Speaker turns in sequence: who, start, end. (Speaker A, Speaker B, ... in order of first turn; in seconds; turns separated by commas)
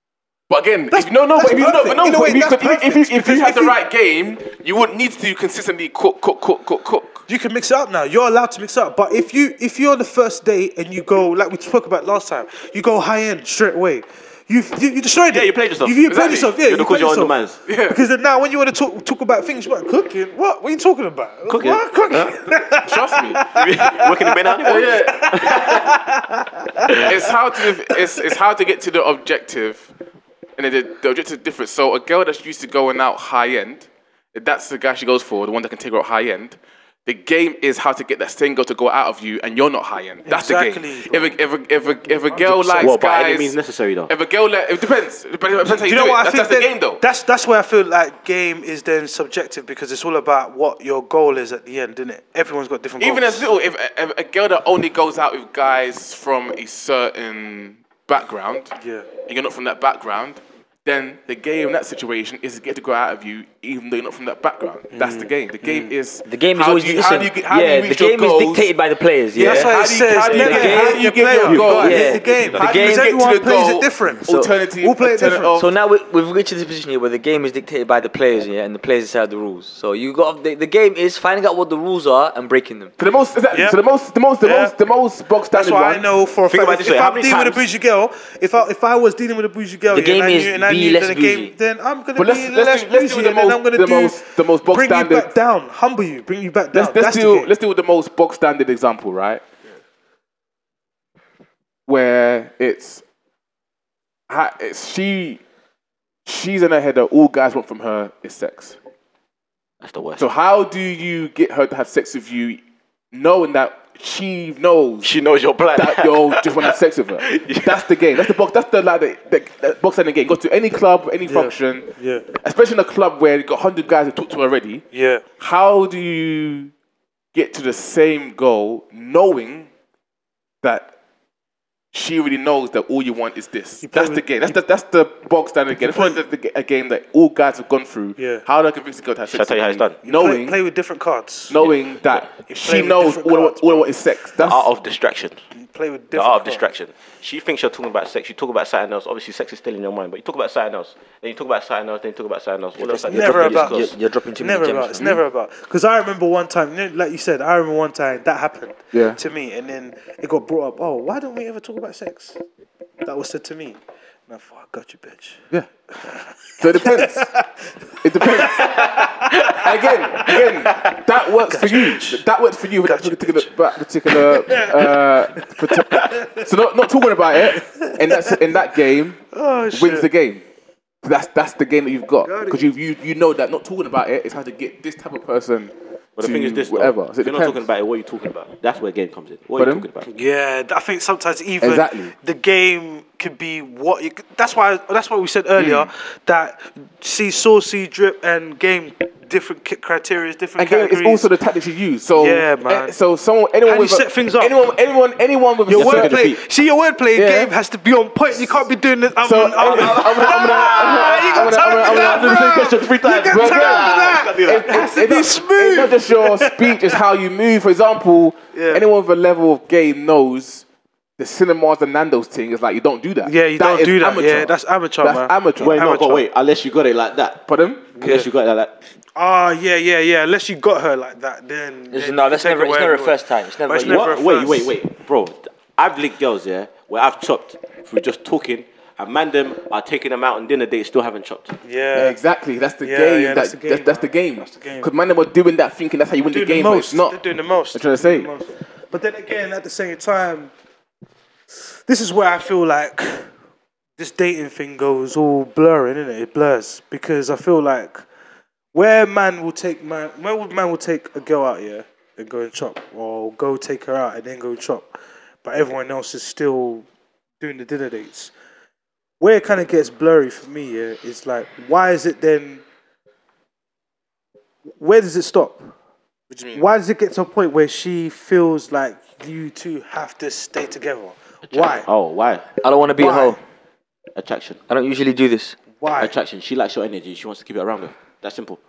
Speaker A: 0.5-7.2, Speaker B: 0.9-3.8, Speaker B: 7.3-17.4, Speaker C: 15.3-17.6, Speaker A: 16.1-16.5, Speaker A: 17.6-18.0, Speaker B: 17.9-27.1, Speaker C: 21.5-22.3, Speaker A: 22.8-23.6, Speaker C: 23.5-25.9, Speaker A: 24.6-26.0, Speaker C: 26.9-27.1, Speaker A: 27.0-29.9, Speaker A: 30.6-43.5, Speaker B: 40.2-41.3, Speaker B: 42.3-42.9, Speaker C: 42.8-44.1, Speaker A: 44.1-47.0, Speaker B: 45.6-53.5, Speaker A: 53.0-68.7, Speaker B: 58.8-59.1, Speaker B: 64.9-65.9, Speaker D: 66.2-69.7, Speaker A: 69.3-75.7, Speaker B: 69.4-74.2, Speaker D: 70.2-73.0, Speaker C: 72.0-72.6, Speaker D: 74.2-74.5, Speaker B: 74.8-75.6, Speaker D: 75.5-82.9, Speaker A: 83.0-86.0, Speaker B: 83.5-83.8, Speaker B: 84.4-84.7, Speaker B: 85.5-97.5, Speaker C: 86.5-87.6, Speaker D: 89.9-91.5, Speaker A: 92.2-95.3, Speaker A: 96.7-99.4, Speaker A: 101.9-103.0, Speaker A: 104.3-105.4, Speaker A: 106.2-108.8, Speaker C: 109.8-110.2, Speaker A: 110.2-112.6, Speaker A: 113.1-115.1, Speaker C: 115.0-117.9, Speaker A: 115.7-124.8, Speaker B: 121.2-122.2, Speaker B: 124.9-125.2, Speaker A: 125.4-126.7, Speaker A: 127.3-129.7, Speaker A: 130.6-130.9, Speaker A: 131.9-140.6, Speaker B: 133.8-134.2, Speaker B: 135.9-136.2, Speaker B: 138.2-138.4, Speaker C: 139.3-140.0, Speaker B: 140.0-141.6, Speaker A: 141.5-144.7, Speaker B: 142.6-143.8, Speaker C: 144.4-145.4, Speaker B: 145.6-146.6, Speaker C: 146.1-153.9, Speaker D: 152.8-155.1, Speaker B: 153.0-162.4, Speaker A: 158.9-159.2, Speaker B: 163.0-165.4, Speaker B: 165.9-167.7, Speaker A: 166.6-167.3, Speaker A: 168.0-180.4, Speaker B: 168.2-172.2, Speaker B: 172.8-173.5, Speaker B: 174.1-176.4, Speaker B: 177.4-178.4, Speaker B: 179.3-180.1, Speaker A: 181.0-187.6, Speaker B: 182.2-182.6, Speaker C: 186.2-190.1, Speaker A: 189.6-189.8, Speaker B: 190.1-201.3, Speaker A: 191.6-192.1, Speaker A: 195.6-195.9, Speaker A: 200.6-206.2, Speaker B: 202.2-202.9, Speaker B: 203.7-204.5, Speaker B: 205.7-216.9, Speaker C: 205.7-206.4, Speaker A: 207.1-207.5, Speaker A: 208.3-208.6, Speaker A: 209.2-220.6, Speaker C: 209.6-214.8, Speaker B: 218.5-218.8, Speaker A: 221.2-225.8, Speaker B: 223.2-226.2, Speaker C: 225.6-227.4, Speaker A: 227.5-227.9, Speaker C: 227.9-228.7, Speaker B: 228.0-228.3, Speaker B: 229.2-234.8, Speaker D: 231.9-234.1, Speaker C: 233.8-241.6, Speaker B: 241.6-242.2, Speaker A: 241.9-247.2, Speaker B: 242.8-244.9, Speaker B: 246.3-250.5, Speaker A: 247.7-248.3, Speaker B: 251.8-253.3, Speaker B: 254.0-258.0, Speaker B: 258.7-264.9, Speaker B: 265.4-266.9, Speaker B: 267.4-268.3, Speaker B: 269.2-272.6, Speaker B: 274.8-275.7, Speaker A: 276.3-276.6, Speaker B: 276.5-281.9, Speaker C: 281.5-282.4, Speaker D: 282.6-283.4, Speaker B: 283.0-283.4, Speaker C: 284.1-284.6, Speaker D: 284.7-285.6, Speaker B: 285.8-286.1, Speaker C: 286.0-288.6